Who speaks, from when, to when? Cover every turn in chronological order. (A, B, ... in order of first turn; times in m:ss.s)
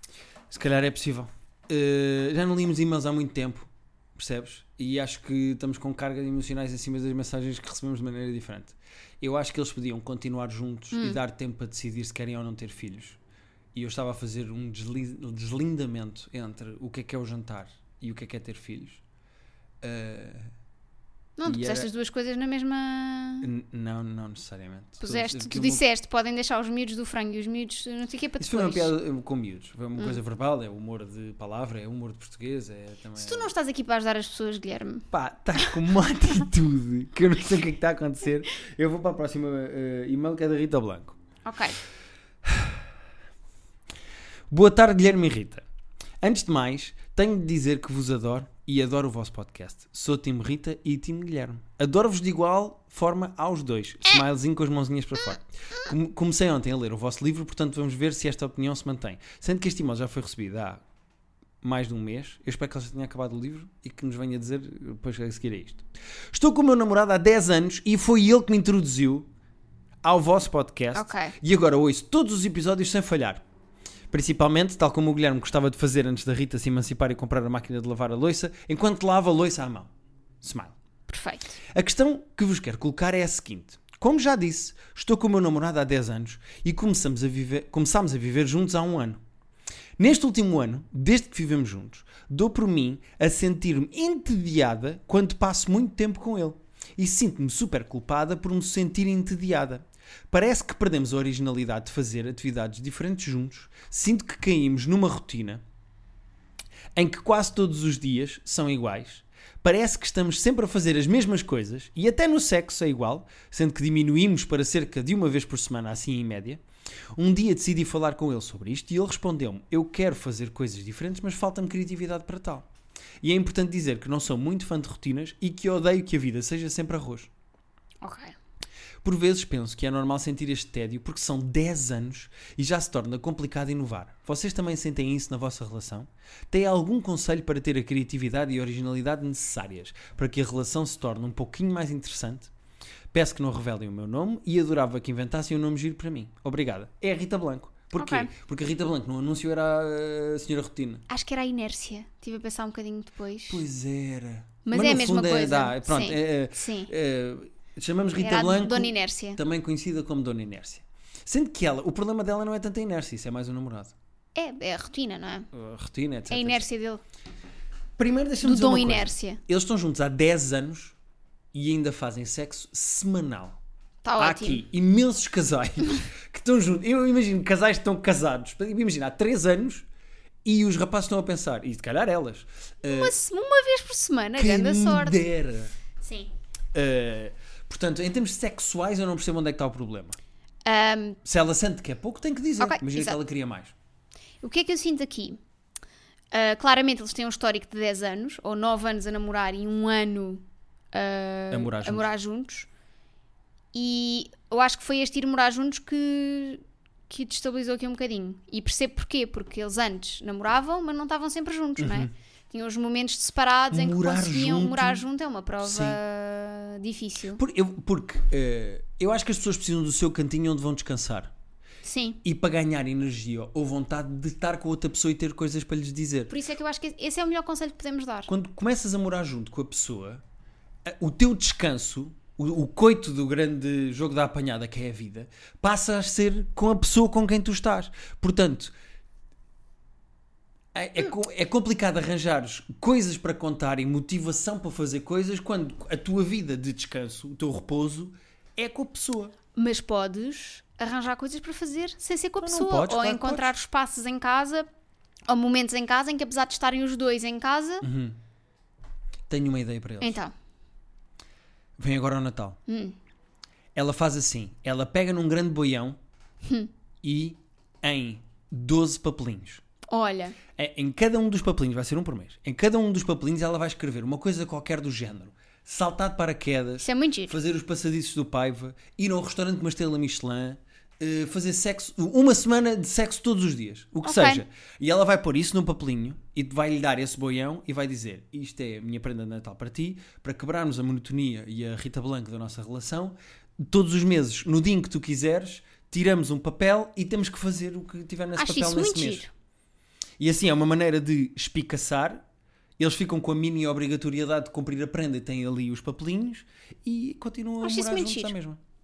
0:00.5-0:13.2 A
0:10.9-0:11.2 B
0:13.7-0:19.0 A
0:19.8-0:20.5 A
0:21.4-0:23.5 B
0:21.4-0:21.9 A
0:23.4-0:25.8 A
0:25.0-0:28.9 B
0:28.4-0:33.5 A
0:33.2-0:35.1 B
0:35.1-0:41.2 A
0:41.4-0:41.8 B
0:42.4-0:42.8 A
0:44.5-0:45.6 A
0:46.2-1:00.8 A
1:01.6-1:09.3 A
1:10.0-1:13.4 A
1:10.9-1:11.4 B
1:14.1-1:19.9 A
1:20.4-1:20.7 A
1:21.1-1:21.6 B
1:21.6-1:29.2 A
1:30.0-1:45.6 A
1:46.9-1:56.6 A
1:57.1-2:02.7 A
2:03.2-2:07.3 A
2:08.0-2:08.4 B
2:09.0-2:22.5 A
2:23.1-2:31.0 A
2:28.0-2:28.3 B
2:31.1-2:33.6 B
2:33.5-2:43.9 A
2:34.6-2:36.9 B
2:38.2-2:39.4 B
2:44.4-2:45.5 B
2:45.5-2:46.7 A
2:46.3-2:47.0 B
2:48.0-2:51.0 A
2:48.4-2:49.4 B
2:51.5-2:53.6 A
2:54.0-2:54.6 B
2:54.2-2:59.8 A
3:00.4-3:03.1 A
3:02.8-3:05.2 B
3:04.4-3:05.7 A
3:06.0-3:06.3 B
3:06.7-3:10.2 A
3:10.6-3:11.2 B
3:11.2-3:13.7 A
3:12.6-3:13.2 B
3:14.4-3:15.4 B
3:16.3-3:22.7 B
3:21.5-3:22.1 A
3:23.7-3:37.4 B
3:31.8-3:32.1 A
3:33.7-3:35.0 A
3:35.6-3:36.0 A
3:37.4-3:41.3 A
3:41.8-3:42.2 B
3:42.2-3:46.3 A
3:46.3-3:48.3 B
3:48.3-3:50.2 A
3:50.8-3:58.7 A
4:00.7-4:09.3 A
4:09.5-4:14.7 B
4:12.4-4:13.5 A
4:15.3-4:17.8 B
4:17.8-4:18.2 A
4:19.3-4:20.2 A
4:20.0-4:20.3 B
4:21.8-4:22.6 A
4:22.7-4:23.0 B
4:23.7-4:26.0 A
4:26.4-4:26.7 B
4:27.0-4:29.6 A
4:29.9-4:30.4 B
4:30.5-4:59.2 A
4:36.8-4:37.3 B
4:44.0-4:44.4 B
4:58.4-4:59.3 B
5:00.2-5:02.2 A
5:02.8-5:08.6 A
5:07.6-5:08.3 B